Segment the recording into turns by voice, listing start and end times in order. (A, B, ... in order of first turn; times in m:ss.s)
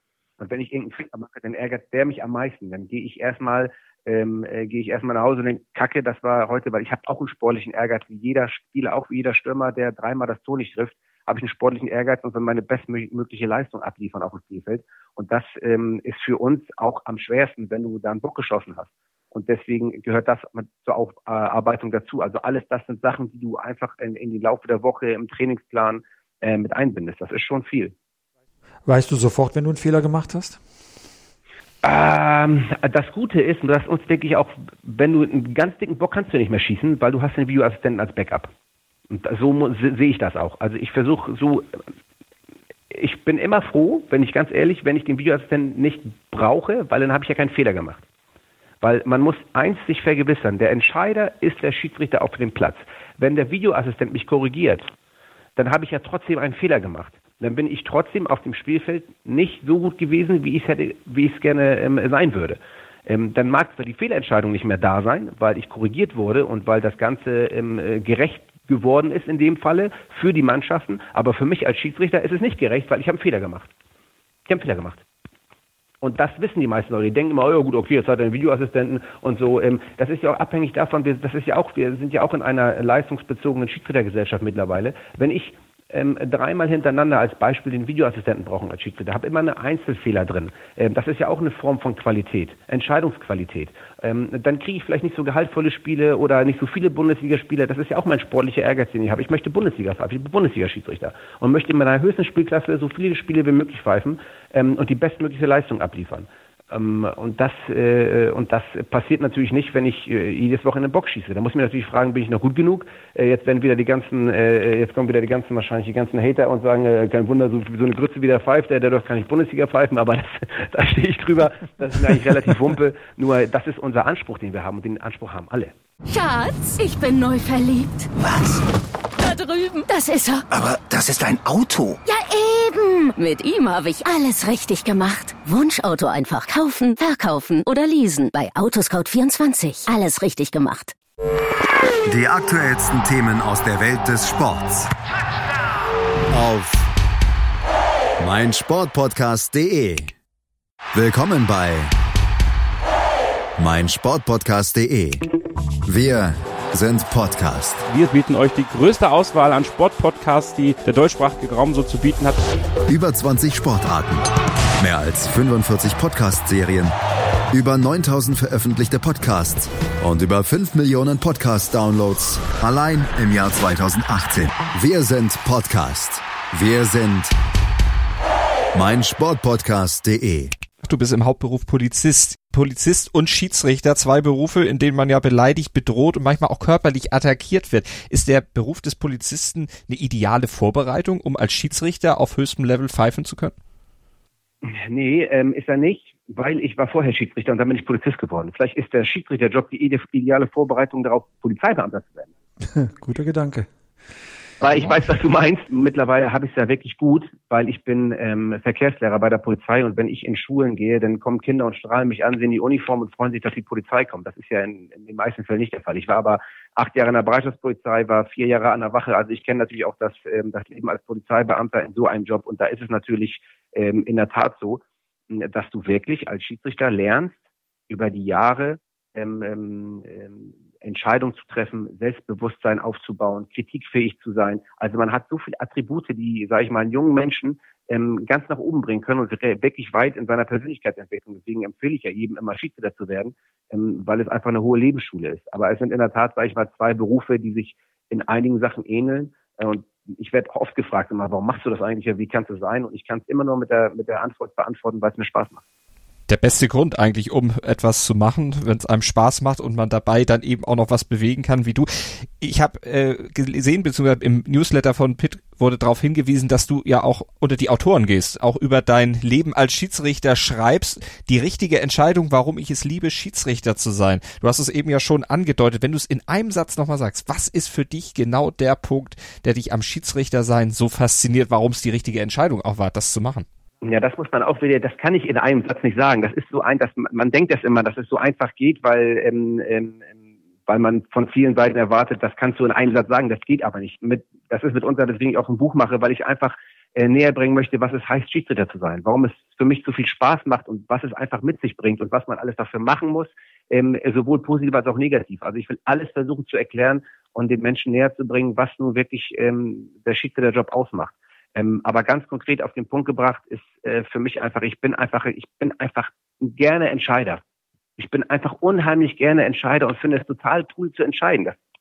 0:00.4-0:27.9 A
0:28.9-0:30.6 B
0:31.8-0:38.5 A
0:39.1-0:41.8 A
0:42.9-0:48.0 A
0:48.8-0:54.9 A
0:55.6-1:13.7 A
1:14.5-1:15.0 A
1:16.0-2:05.7 A
2:06.1-2:08.1 C
2:08.1-2:08.6 D
2:09.2-2:10.4 C
2:10.5-2:12.0 D
2:12.0-2:21.0 C
2:22.1-2:24.9 E
2:26.3-2:26.9 E
2:28.2-2:30.1 E
2:30.9-2:31.9 E
2:33.6-2:35.3 E
2:35.9-2:37.8 E
2:37.8-2:42.4 F
2:42.9-2:46.9 E
2:47.5-2:57.4 E
2:58.7-3:00.5 E
3:00.8-3:13.6 G
3:14.6-3:22.3 A
3:22.7-3:23.7 B
3:24.6-3:47.4 A
3:47.9-4:15.6 A
4:16.3-4:43.5 G
4:43.8-4:50.1 A
4:50.7-5:17.4 A
5:18.0-5:21.6 A